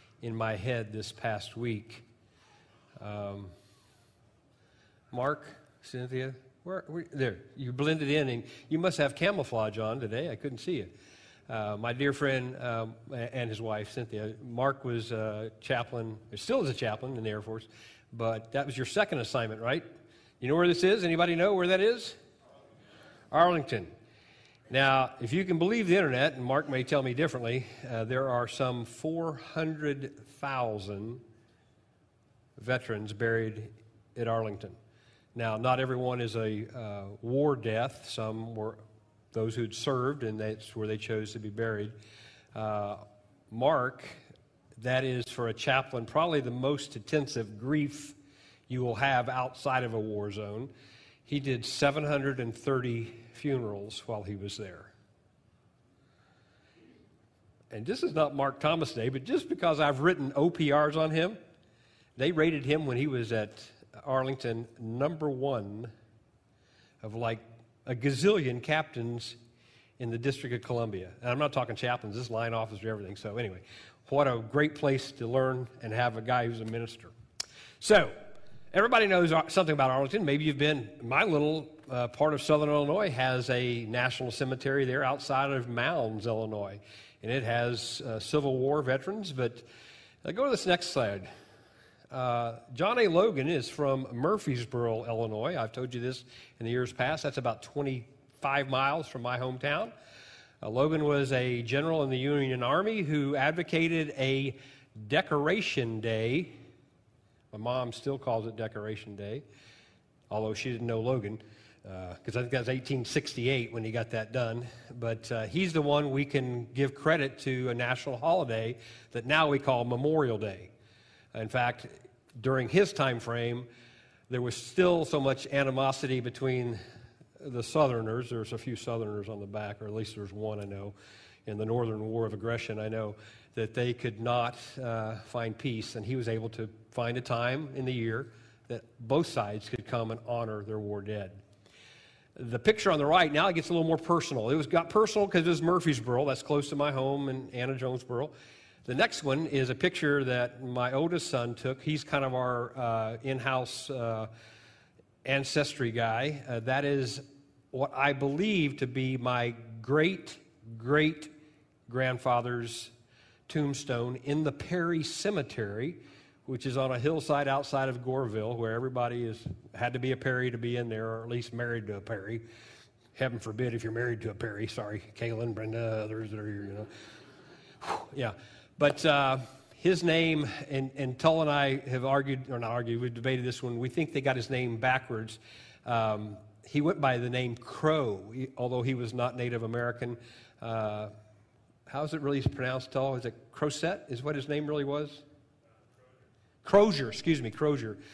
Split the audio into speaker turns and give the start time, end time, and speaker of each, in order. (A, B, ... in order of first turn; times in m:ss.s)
0:00.2-0:02.1 A
0:03.0-0:03.5 A
0:05.1-0:10.9 A
0:11.5-0:19.9 A
0:20.4-0:22.2 A
0:23.3-0:23.9 A
0:24.7-0:31.2 A
0:32.6-0:34.8 A
0:35.4-0:38.8 A
0:39.3-0:42.0 A
0:42.5-0:44.2 A
0:44.8-0:48.2 A
0:48.7-0:50.7 A
0:51.2-0:54.9 A
0:57.7-1:01.4 A
1:02.2-1:05.9 A
1:07.0-1:09.4 A
1:10.0-1:17.1 A
1:17.8-1:18.2 A
1:18.7-1:29.7 A
1:30.2-1:31.3 A
1:32.1-1:39.9 A
1:40.6-1:46.6 A
1:47.5-1:49.4 A
1:50.3-2:00.7 A
2:01.3-2:03.7 A
2:04.3-2:06.8 A
2:07.4-2:21.4 A
2:22.4-2:28.3 A
2:28.8-2:34.3 A
2:35.2-2:41.3 A
2:41.9-2:42.9 A
2:43.5-2:52.4 A
2:53.2-2:56.9 A
2:57.8-3:11.1 A
3:11.9-3:15.2 A
3:16.6-3:18.0 A